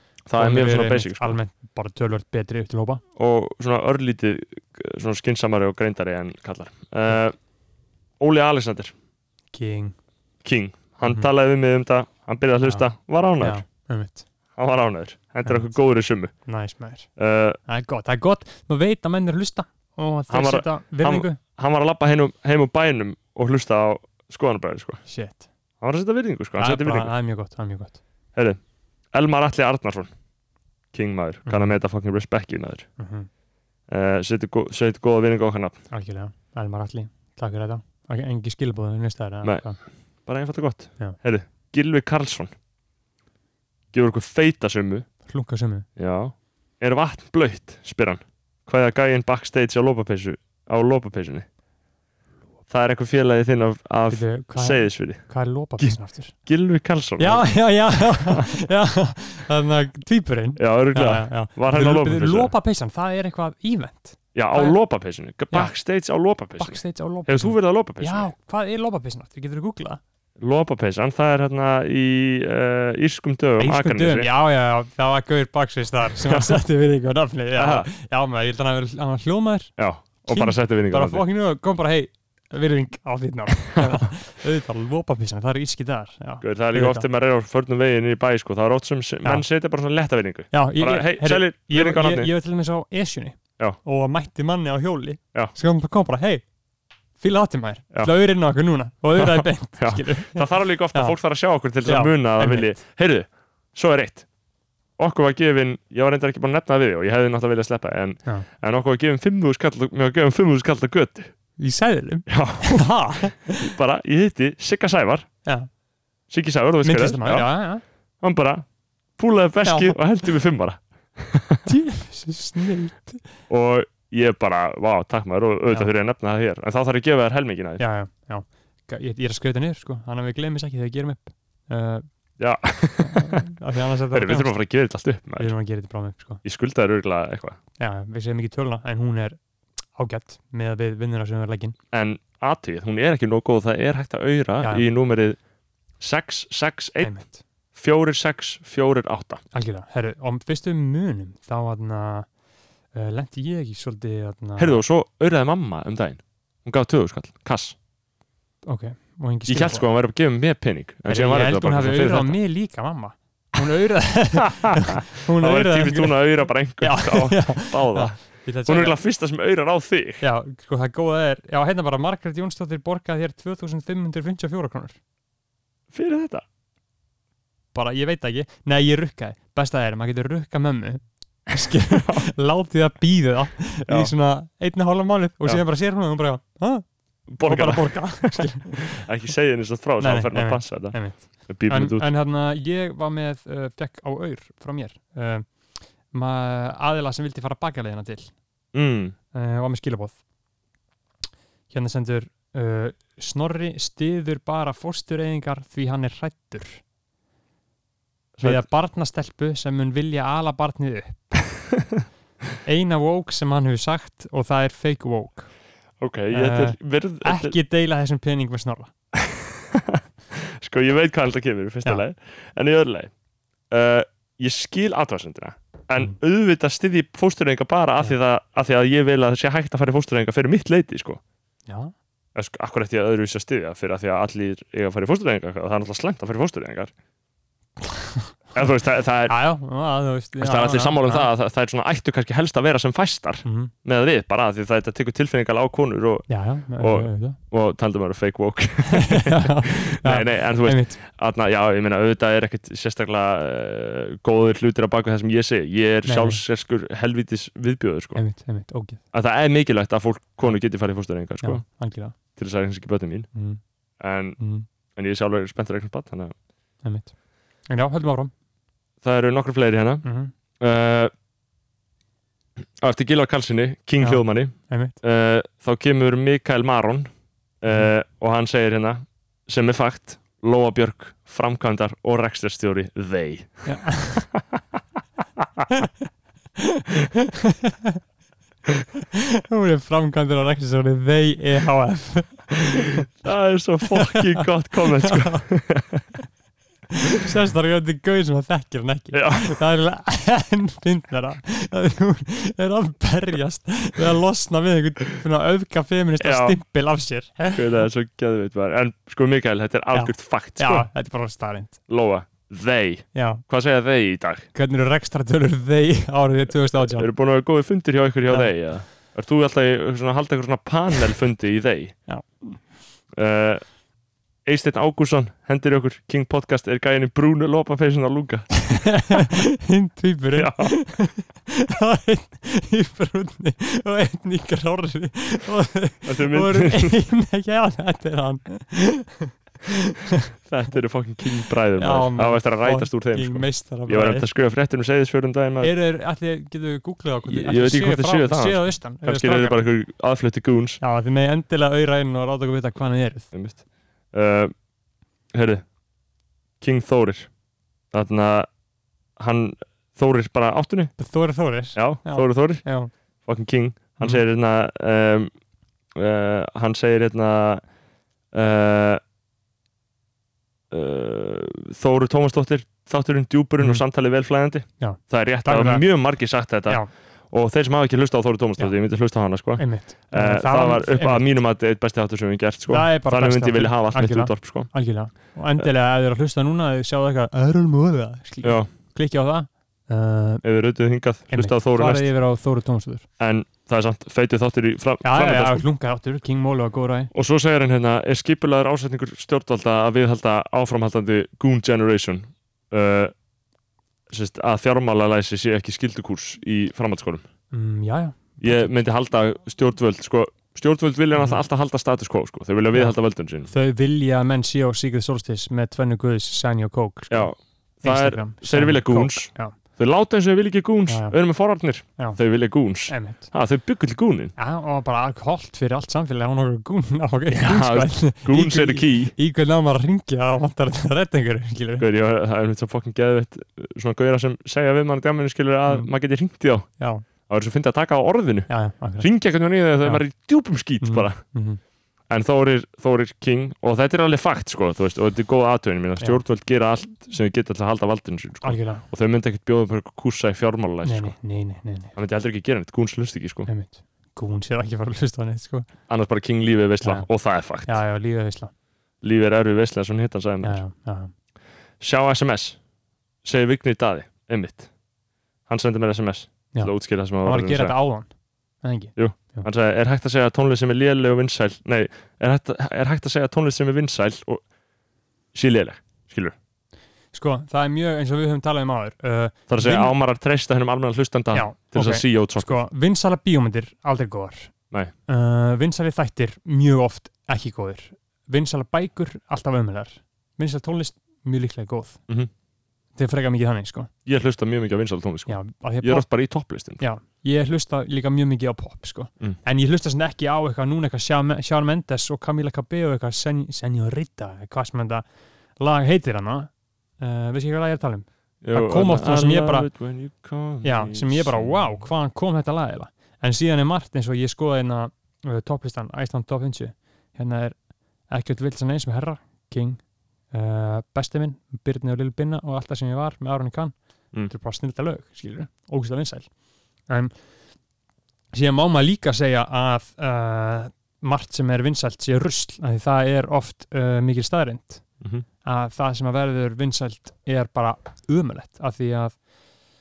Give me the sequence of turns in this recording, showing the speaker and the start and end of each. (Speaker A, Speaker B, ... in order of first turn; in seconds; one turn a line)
Speaker A: 0.3-1.4
Speaker B: 0.4-3.0
Speaker A: 3.2-7.4
Speaker A: 8.2-8.9
Speaker B: 9.5-10.0
Speaker A: 10.4-13.6
Speaker B: 12.6-12.9
Speaker B: 13.4-14.2
Speaker A: 14.6-16.5
Speaker B: 15.4-15.8
Speaker B: 16.4-17.1
Speaker A: 17.2-17.6
Speaker B: 17.6-21.4
Speaker A: 20.3-25.0
Speaker B: 25.1-25.4
Speaker A: 25.8-27.1
Speaker B: 26.6-28.0
Speaker A: 29.1-30.1
Speaker A: 30.9-32.9
Speaker B: 31.5-31.8
Speaker B: 33.0-33.3
Speaker A: 33.9-35.8
Speaker B: 35.9-39.8
Speaker A: 40.3-42.5
Speaker A: 43.9-45.1
Speaker B: 45.3-45.9
Speaker A: 46.0-51.5
Speaker A: 52.7-58.5
Speaker B: 54.1-56.4
Speaker B: 57.2-64.8
Speaker A: 60.6-62.5
Speaker A: 64.3-68.3
Speaker B: 66.6-70.0
Speaker A: 70.4-74.3
Speaker B: 73.6-87.0
Speaker A: 76.3-76.6
Speaker A: 77.5-77.9
Speaker A: 79.8-81.2
Speaker A: 86.4-92.3
Speaker B: 90.5-96.5
Speaker B: 97.2-101.2
Speaker A: 99.2-104.3
Speaker B: 101.8-102.8
Speaker A: 105.0-111.3
Speaker B: 111.6-113.7
Speaker A: 112.3-112.9
Speaker A: 113.4-115.3
Speaker A: 116.3-117.6
Speaker B: 116.8-117.8
Speaker A: 118.2-121.7
Speaker B: 119.6-120.0
Speaker B: 121.7-123.2
Speaker A: 123.5-127.8
Speaker B: 127.8-132.1
Speaker A: 132.4-133.5
Speaker B: 133.0-134.5
Speaker A: 134.1-135.5
Speaker B: 135.4-136.4
Speaker A: 136.4-137.6
Speaker B: 137.8-139.4
Speaker B: 139.9-141.8
Speaker A: 141.9-145.4
Speaker A: 146.0-147.2
Speaker B: 147.0-147.4
Speaker A: 147.7-149.4
Speaker B: 149.5-152.3
Speaker B: 152.9-154.8
Speaker A: 154.6-157.8
Speaker B: 158.6-159.9
Speaker A: 159.5-162.4
Speaker B: 161.1-169.0
Speaker A: 165.3-170.2
Speaker B: 170.2-175.0
Speaker A: 175.9-176.4
Speaker B: 177.7-186.8
Speaker A: 181.9-182.3
Speaker A: 183.9-184.1
Speaker A: 187.3-192.1
Speaker B: 187.4-189.0
Speaker B: 190.0-198.3
Speaker A: 198.7-199.2
Speaker B: 199.3-200.2
Speaker B: 201.7-206.8
Speaker A: 208.4-208.7
Speaker B: 208.4-211.5
Speaker B: 212.7-215.5
Speaker A: 216.0-217.6
Speaker B: 216.3-218.9
Speaker A: 219.2-220.0
Speaker A: 220.6-223.1
Speaker A: 223.7-231.2
Speaker B: 231.7-231.9
Speaker A: 232.3-236.9
Speaker B: 237.8-238.3
Speaker A: 238.5-239.4
Speaker B: 239.3-241.3
Speaker A: 240.4-258.2
Speaker B: 243.4-243.7
Speaker B: 246.3-247.4
Speaker B: 248.9-251.0
Speaker B: 256.1-256.4
Speaker B: 258.1-259.0
Speaker A: 259.1-263.3
Speaker B: 261.4-262.1
Speaker B: 263.3-263.6
Speaker A: 264.0-264.4
Speaker B: 264.4-264.7
Speaker A: 264.9-266.3
Speaker B: 266.8-267.1
Speaker B: 267.7-268.3
Speaker A: 269.0-270.1
Speaker B: 270.0-270.3
Speaker A: 270.6-271.1
Speaker A: 272.8-277.1
Speaker B: 274.0-275.0
Speaker A: 277.6-283.9
Speaker B: 283.7-284.3
Speaker B: 286.6-288.0
Speaker B: 289.2-292.7
Speaker A: 292.7-296.0
Speaker B: 293.9-296.2
Speaker B: 297.1-307.7
Speaker A: 299.1-299.6
Speaker A: 306.2-306.6
Speaker A: 307.5-310.9
Speaker B: 309.9-311.8
Speaker A: 311.9-314.5
Speaker B: 313.1-313.4
Speaker B: 314.5-317.1
Speaker A: 316.9-322.0
Speaker B: 322.1-322.7
Speaker A: 323.1-323.7
Speaker A: 324.4-329.1
Speaker B: 328.7-340.3
Speaker A: 330.3-330.7
Speaker A: 336.1-337.0
Speaker A: 340.4-345.7
Speaker B: 341.8-344.3
Speaker B: 345.6-349.7
Speaker A: 347.3-350.8
Speaker B: 350.8-353.3
Speaker A: 353.3-354.5
Speaker A: 355.3-355.7
Speaker A: 356.6-357.3
Speaker A: 357.9-358.5
Speaker A: 359.2-361.0
Speaker B: 361.0-362.9
Speaker A: 361.7-362.7
Speaker A: 363.2-365.3
Speaker A: 365.9-367.6
Speaker A: 368.3-369.0
Speaker A: 370.7-384.7
Speaker B: 373.6-373.9
Speaker B: 374.8-376.1
Speaker B: 379.6-381.2
Speaker B: 382.7-390.4
Speaker A: 388.4-388.7
Speaker A: 390.4-392.1
Speaker B: 391.3-393.1
Speaker A: 393.2-395.6
Speaker B: 395.0-397.1
Speaker A: 397.1-403.1
Speaker A: 404.1-407.2
Speaker B: 407.5-408.7
Speaker A: 408.4-413.5
Speaker B: 413.5-419.6
Speaker A: 417.1-424.4
Speaker B: 420.9-421.2
Speaker B: 422.8-423.3
Speaker B: 424.4-431.9
Speaker A: 427.3-429.1
Speaker A: 431.8-436.7
Speaker B: 436.8-437.1
Speaker A: 437.2-441.2
Speaker B: 438.5-439.1
Speaker B: 440.7-441.6
Speaker A: 442.1-451.1
Speaker B: 448.4-448.9
Speaker B: 450.8-451.9
Speaker A: 451.9-453.5
Speaker B: 453.5-455.7
Speaker A: 455.9-457.8
Speaker B: 456.8-458.5
Speaker A: 459.0-460.6
Speaker B: 460.4-461.1
Speaker A: 461.8-462.6
Speaker A: 463.2-464.7
Speaker A: 465.5-467.8
Speaker B: 466.5-469.5
Speaker A: 469.0-474.4
Speaker A: 475.3-476.4
Speaker B: 477.1-479.9
Speaker A: 479.5-482.7
Speaker B: 481.3-484.5
Speaker B: 485.1-492.0
Speaker B: 493.0-493.9
Speaker A: 494.1-496.8
Speaker B: 495.3-496.1
Speaker B: 496.8-509.7
Speaker A: 508.4-511.7
Speaker B: 510.6-527.3
Speaker B: 528.3-539.2